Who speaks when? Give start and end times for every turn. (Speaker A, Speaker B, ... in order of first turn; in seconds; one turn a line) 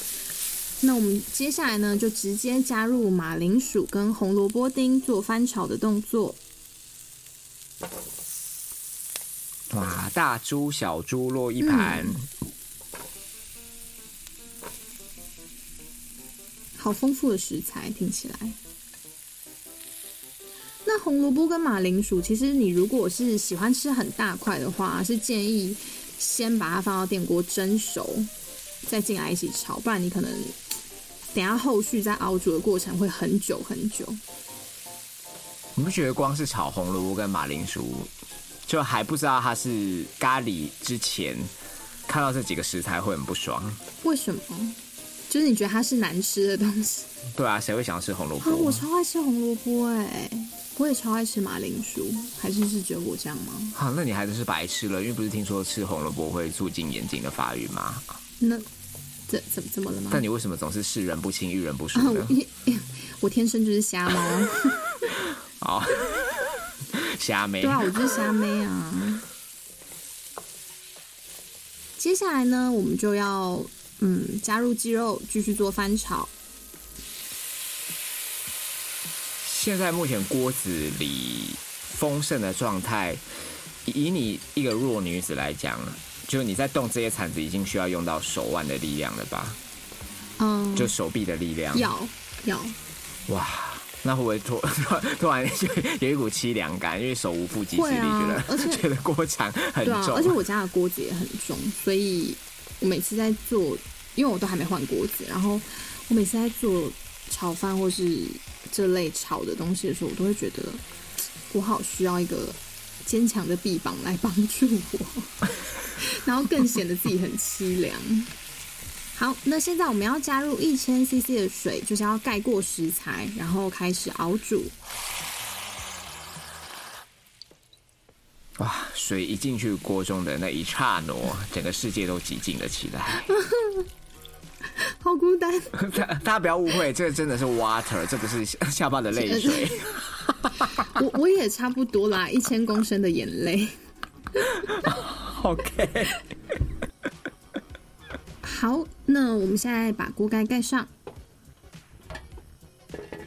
Speaker A: 0.8-6.4
Speaker B: 9.7-12.3
Speaker A: 11.6-12.2
Speaker A: 16.8-18.6
Speaker A: 20.9-28.3
Speaker A: 28.9-30.6
Speaker A: 31.3-34.2
Speaker B: 35.8-38.1
Speaker B: 38.7-41.5
Speaker B: 42.1-43.8
Speaker A: 44.0-44.8
Speaker A: 45.3-47.1
Speaker B: 47.4-48.8
Speaker A: 48.4-53.8
Speaker B: 53.8-58.1
Speaker A: 58.4-58.6
Speaker A: 59.3-60.2
Speaker B: 60.1-62.4
Speaker A: 61.9-65.1
Speaker B: 65.6-66.3
Speaker B: 66.9-67.9
Speaker A: 67.6-69.2
Speaker A: 72.0-76.3
Speaker B: 79.4-83.2
Speaker B: 83.8-89.6
Speaker A: 90.4-90.9
Speaker B: 90.8-91.9
Speaker A: 91.7-92.8
Speaker B: 93.3-100.4
Speaker A: 97.7-98.9
Speaker A: 99.8-110.8
Speaker A: 111.5-115.3
Speaker A: 116.0-118.3
Speaker A: 119.2-124.7
Speaker B: 128.6-133.3
Speaker A: 133.3-133.9
Speaker A: 134.8-135.8
Speaker B: 135.8-140.9
Speaker A: 139.1-139.8
Speaker A: 140.7-143.7
Speaker B: 144.6-146.2
Speaker A: 148.4-150.9